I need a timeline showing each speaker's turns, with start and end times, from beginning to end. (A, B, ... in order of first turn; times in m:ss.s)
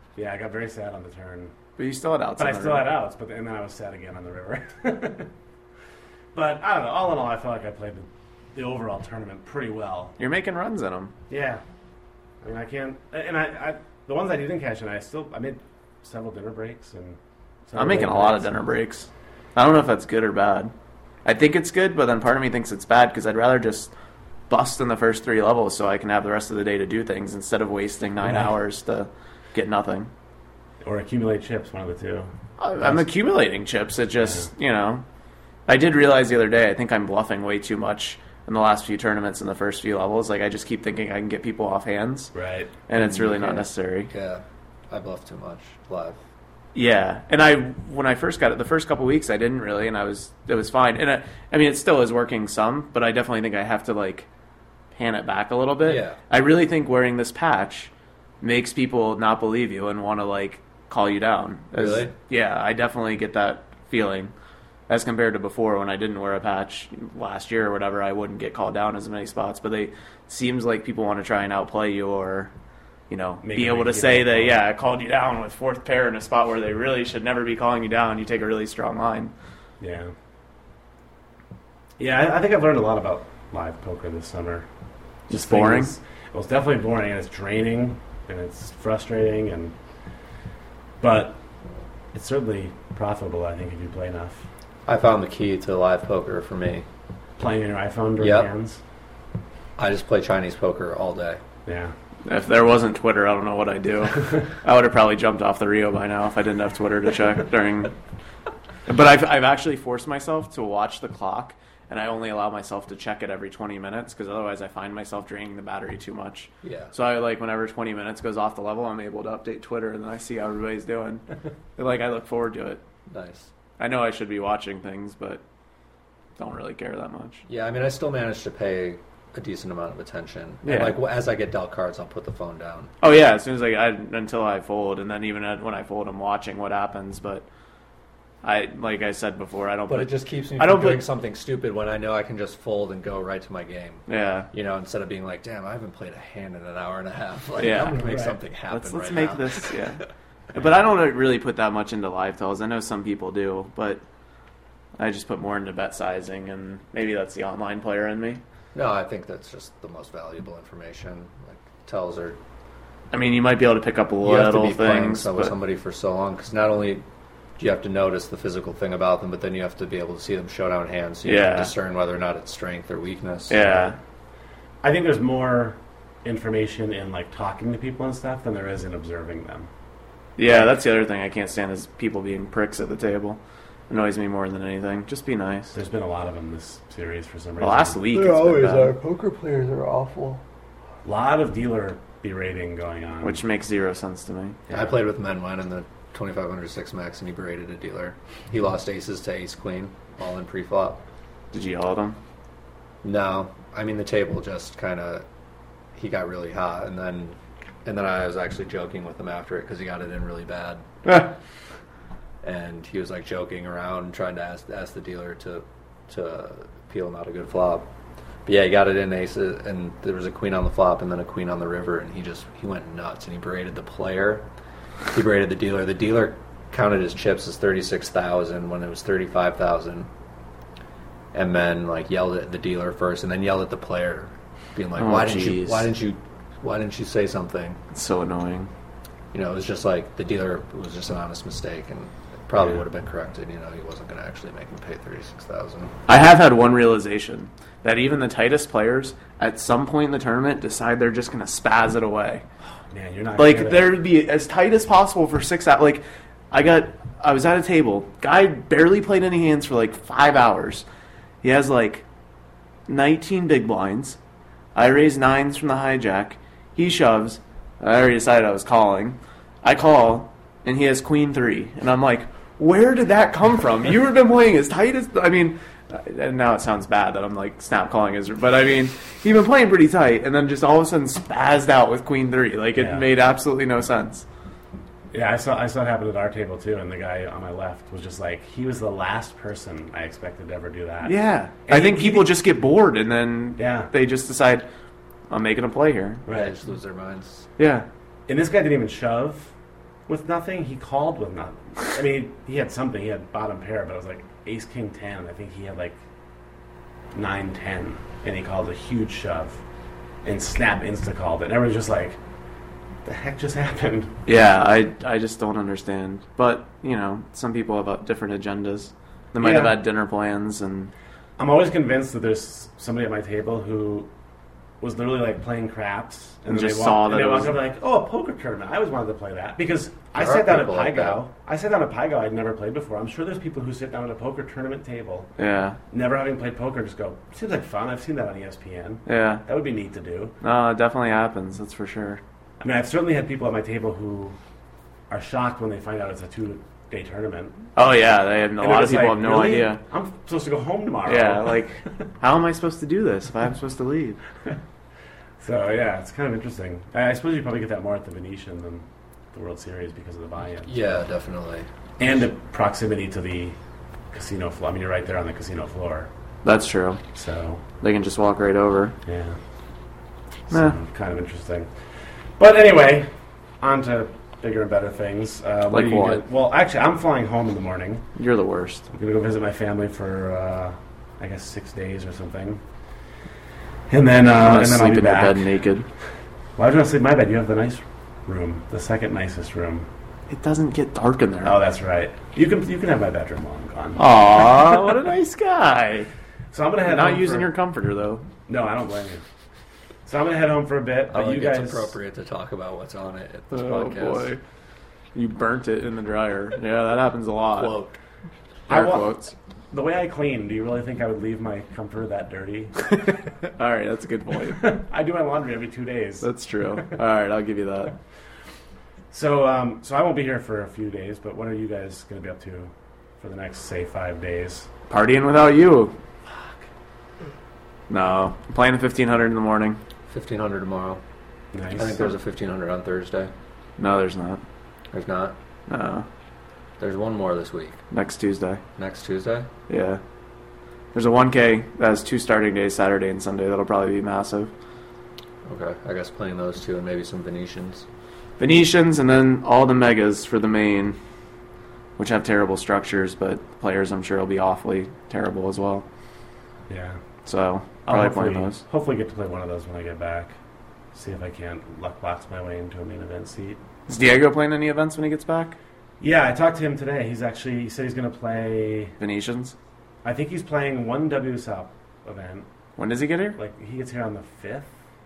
0:00.2-0:01.5 A
0:01.8-0:02.9 B
0:02.4-0:05.3 A
0:06.3-0:10.2 A
0:10.2-0:11.1 B
0:11.3-0:11.6 A
0:12.4-0:18.5 A
0:17.8-0:20.7 B
0:21.2-0:23.9 B
0:24.5-0:30.1 B
0:30.8-0:33.0 A
0:32.6-0:35.0 B
0:35.7-0:42.3 B
0:42.3-0:42.7 A
0:42.9-0:44.1 B
0:43.0-0:46.2 C
0:46.7-0:54.3 B
0:54.9-0:57.9 B
0:55.8-0:56.2 C
0:58.4-1:04.3 B
1:01.7-1:02.1 C
1:04.9-1:12.5 B
1:13.1-1:19.3 B
1:13.4-1:14.6 A
1:19.8-1:20.1 A
1:22.0-1:24.7 A
1:25.3-1:29.7 A
1:25.3-1:25.9 B
1:31.0-1:31.4 A
1:32.1-1:34.4 A
1:34.8-1:36.8 C
1:37.4-1:38.8 A
1:38.2-1:38.5 C
1:39.8-1:41.4 C
1:41.6-1:41.9 A
1:42.2-1:47.9 B
1:48.9-2:01.2 B
1:56.6-1:56.9 C
2:01.8-2:02.8 B
2:03.1-2:03.5 C
2:03.8-2:05.4 B
2:06.4-2:07.4 B
2:07.5-2:12.9 C
2:10.6-2:11.0 B
2:13.0-2:17.4 B
2:18.4-2:21.0 B
2:19.9-2:29.8 C
2:24.1-2:24.5 B
2:27.6-2:28.1 B
2:28.0-2:28.4 A
2:28.7-2:34.0 B
2:35.0-2:38.4 B
2:38.7-2:42.4 C
2:43.1-2:45.5 B
2:44.2-2:47.0 C
2:47.6-2:53.9 C
2:51.2-2:51.7 B
2:53.5-2:54.0 B
2:54.8-2:59.7 A
3:00.4-3:05.8 B
3:00.4-3:00.8 A
3:05.7-3:08.0 A
3:07.6-3:08.9 B
3:08.1-3:10.4 C
3:11.0-3:13.4 A
3:13.2-3:14.6 B
3:14.7-3:21.0 C
3:21.5-3:22.2 B
3:23.0-3:25.2 C
3:25.9-3:30.8 C
3:31.0-3:31.3 B
3:32.4-3:37.9 C
3:38.4-3:44.5 C
3:45.1-3:50.1 C
3:51.3-3:57.8 C
3:55.0-3:55.9 B
3:57.9-3:58.7 B
3:59.3-4:05.9 C
4:06.1-4:12.4 B
4:12.9-4:14.0 A
4:13.4-4:20.8 B
4:21.4-4:22.0 B
4:22.9-4:24.2 B
4:24.7-4:44.2 B
4:42.8-4:43.0 A
4:45.1-4:52.3 A
4:51.0-4:54.7 B
4:53.6-4:53.9 A
4:55.3-4:56.2 B
4:56.3-4:56.5 A
4:56.3-4:57.5 C
4:57.6-4:57.9 B
4:58.3-4:59.5 A
5:00.1-5:06.0 A
5:07.1-5:09.6 A
5:10.2-5:12.2 A
5:13.0-5:14.2 A
5:14.2-5:20.9 B
5:19.4-5:19.8 A
5:21.4-5:24.1 A
5:24.8-5:35.3 A
5:26.5-5:27.6 B
5:30.1-5:31.2 C
5:35.4-5:35.8 B
5:35.9-5:40.3 A
5:39.0-5:39.4 B
5:40.4-5:42.2 B
5:42.6-5:44.4 A
5:45.1-5:47.7 A
5:47.7-5:49.8 B
5:48.6-5:52.0 A
5:51.0-5:54.2 B
5:55.4-6:01.0 A
6:00.6-6:01.7 C
6:02.0-6:03.6 A
6:04.1-6:06.1 A
6:06.4-6:07.0 B
6:07.1-6:07.6 A
6:07.8-6:09.0 B
6:09.0-6:09.4 A
6:10.5-6:11.7 A
6:10.5-6:10.8 B
6:12.4-6:13.1 A
6:13.6-6:18.1 A
6:15.7-6:16.2 B
6:18.2-6:18.8 B
6:18.9-6:22.6 A
6:23.9-6:25.5 A
6:24.4-6:25.9 B
6:26.6-6:29.9 A
6:30.3-6:31.6 B
6:31.4-6:34.0 A
6:34.0-6:36.1 B
6:36.5-6:37.5 A
6:36.8-6:38.2 B
6:38.5-6:39.2 A
6:40.0-6:41.9 A
6:41.1-6:44.3 C
6:43.5-6:44.4 B
6:45.1-6:47.7 B
6:47.5-6:48.0 C
6:48.7-6:49.2 A
6:48.7-6:49.3 B
6:49.7-6:53.0 A
6:53.1-6:54.7 B
6:54.5-6:56.9 A
6:56.2-6:57.9 B
6:59.1-7:04.7 A
7:04.9-7:05.9 B
7:07.9-7:09.8 B
7:10.1-7:11.0 C
7:11.5-7:12.0 A
7:11.7-7:13.3 C
7:13.8-7:14.4 B
7:14.9-7:15.4 C
7:15.7-7:16.1 B
7:16.8-7:17.8 C
7:17.9-7:18.6 B
7:18.8-7:19.5 C
7:19.7-7:20.0 B
7:20.9-7:24.5 B
7:25.4-7:27.8 C
7:28.4-7:31.0 B
7:32.0-7:35.9 B
7:36.7-7:37.0 A
7:37.2-7:38.6 B
7:37.9-7:40.3 A
7:40.9-7:43.6 A
7:43.9-7:45.6 B
7:46.0-7:49.0 A
7:49.0-7:49.6 B
7:50.0-7:52.5 A
7:52.8-7:53.4 B
7:53.4-7:54.7 A